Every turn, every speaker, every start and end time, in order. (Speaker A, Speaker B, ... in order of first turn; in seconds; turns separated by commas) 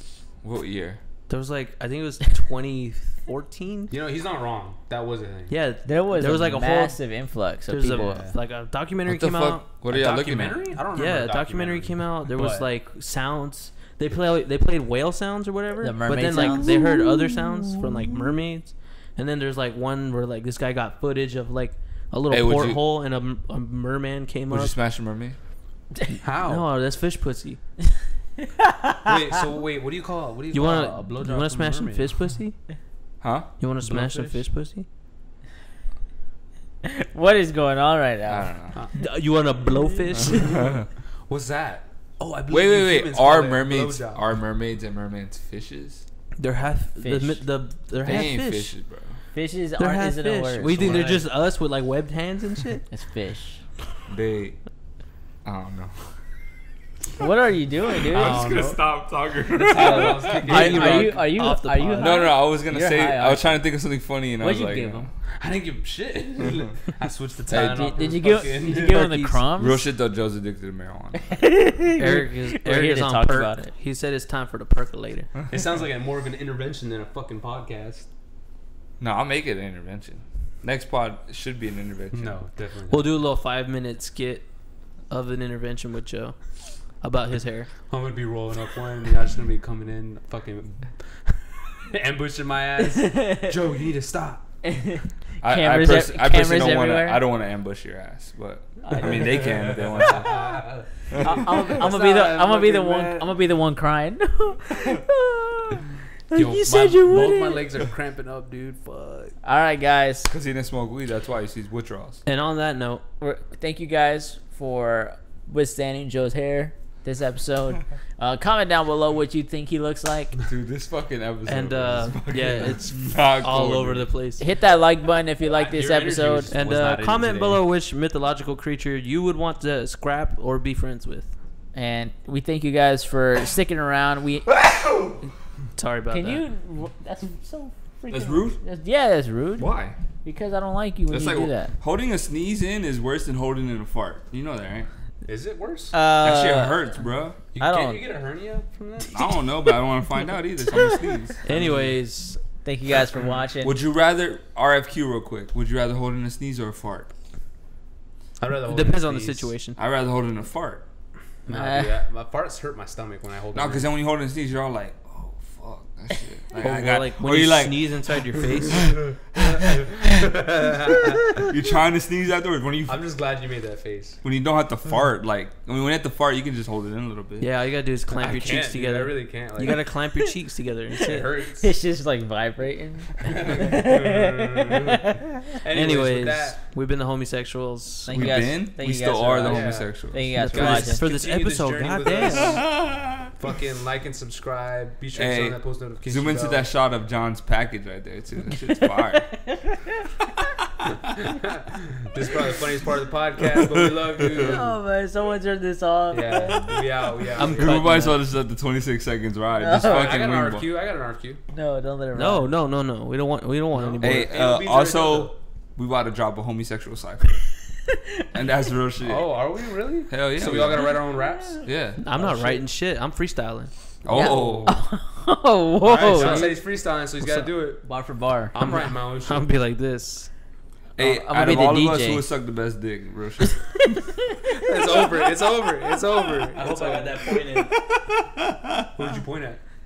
Speaker A: 0.4-1.0, Speaker B: 1.3-3.9, Speaker C: 3.9-5.5, Speaker B: 5.5-7.0, Speaker D: 5.8-8.3, Speaker B: 7.7-9.6, Speaker C: 7.8-8.3, Speaker A: 9.0-10.8, Speaker C: 9.9-12.7, Speaker B: 10.9-24.8, Speaker D: 15.8-17.1, Speaker A: 22.3-22.8, Speaker A: 24.5-25.4, Speaker C: 26.2-26.6, Speaker B: 26.4-27.6, Speaker D: 28.4-29.1, Speaker C: 29.0-32.3, Speaker B: 30.5-32.5, Speaker A: 33.2-33.5, Speaker B: 33.6-34.9, Speaker C: 33.8-34.4, Speaker D: 36.8-38.5, Speaker A: 38.3-38.8, Speaker B: 38.9-40.7, Speaker C: 40.2-44.2, Speaker A: 40.3-40.9, Speaker A: 42.5-46.0, Speaker B: 46.4-48.7, Speaker D: 47.0-47.4, Speaker A: 48.0-49.2, Speaker D: 49.3-51.0, Speaker B: 49.8-52.8, Speaker C: 50.7-51.2, Speaker D: 52.9-53.6, Speaker A: 54.1-54.6, Speaker A: 55.4-56.0, Speaker D: 57.2-58.6, Speaker A: 58.1-60.8, Speaker C: 58.1-58.9, Speaker C: 59.5-61.2, Speaker D: 59.8-63.6, Speaker B: 60.3-62.3, Speaker A: 62.0-65.1, Speaker D: 64.4-65.0, Speaker C: 65.4-69.0, Speaker D: 67.5-69.8, Speaker B: 68.7-69.4, Speaker A: 69.6-71.4, Speaker D: 71.3-73.7, Speaker B: 72.0-75.3, Speaker C: 75.5-78.1, Speaker A: 79.0-82.4, Speaker C: 82.1-83.2, Speaker B: 82.9-84.4, Speaker B: 85.1-86.3, Speaker B: 87.0-87.7, Speaker C: 87.9-94.5, Speaker D: 92.9-93.5, Speaker D: 94.6-97.2, Speaker A: 95.4-100.4, Speaker D: 98.9-99.2, Speaker C: 98.9-103.3, Speaker A: 101.1-101.4, Speaker D: 101.2-107.7, Speaker C: 106.3-109.3, Speaker D: 109.4-110.3, Speaker A: 110.3-112.2, Speaker B: 112.2-113.0, Speaker D: 113.2-120.3, Speaker A: 120.5-124.1, Speaker B: 121.5-124.4, Speaker D: 124.4-126.5, Speaker C: 125.5-127.6, Speaker B: 126.5-131.3, Speaker D: 131.7-134.5, Speaker A: 134.5-135.2, Speaker B: 135.8-136.4, Speaker D: 136.1-139.7, Speaker A: 138.1-138.6, Speaker A: 139.6-140.0, Speaker D: 140.2-141.7, Speaker A: 141.1-144.9, Speaker C: 145.2-145.9, Speaker D: 145.9-146.9, Speaker A: 146.2-147.4, Speaker C: 147.5-149.4, Speaker D: 147.6-148.1, Speaker A: 149.1-151.4, Speaker B: 151.4-152.4, Speaker C: 151.5-152.0, Speaker D: 152.6-153.8, Speaker A: 153.6-157.1, Speaker C: 158.4-159.5, Speaker B: 158.6-159.8, Speaker A: 159.8-160.8, Speaker C: 161.5-163.9, Speaker D: 161.5-161.9, Speaker A: 163.5-167.8, Speaker B: 166.6-169.1, Speaker C: 169.3-171.4, Speaker A: 169.4-169.8, Speaker A: 171.4-173.0, Speaker C: 172.8-174.2, Speaker A: 174.2-177.5, Speaker B: 177.4-181.3, Speaker C: 178.1-179.8, Speaker C: 181.0-181.7, Speaker D: 181.6-185.2, Speaker C: 183.2-186.6, Speaker B: 185.7-188.2, Speaker D: 188.1-191.0, Speaker A: 188.1-190.8, Speaker C: 189.4-192.8, Speaker B: 190.4-192.6, Speaker A: 192.3-193.3, Speaker C: 193.4-196.6, Speaker A: 195.1-199.3, Speaker D: 198.6-199.9, Speaker C: 201.1-204.8, Speaker A: 203.5-204.6, Speaker D: 204.4-206.7, Speaker C: 206.1-208.0, Speaker B: 207.3-208.2, Speaker A: 207.6-210.7, Speaker D: 209.6-210.2, Speaker C: 209.8-211.4, Speaker D: 211.5-212.5, Speaker B: 212.2-214.3, Speaker C: 213.7-215.3, Speaker A: 214.0-217.4, Speaker D: 217.9-218.2, Speaker A: 218.3-219.4, Speaker C: 219.0-222.6, Speaker A: 220.1-221.0, Speaker A: 221.6-222.0, Speaker B: 222.0-223.7, Speaker A: 224.0-224.7, Speaker C: 224.0-224.8, Speaker D: 224.1-226.6, Speaker C: 225.8-227.8, Speaker B: 226.2-226.5, Speaker A: 226.2-226.5, Speaker D: 227.2-228.6, Speaker C: 228.5-229.5, Speaker B: 228.6-230.3, Speaker D: 231.0-232.2, Speaker A: 231.0-233.6, Speaker C: 234.5-237.3, Speaker B: 236.5-237.8, Speaker A: 237.9-238.8, Speaker C: 238.9-239.6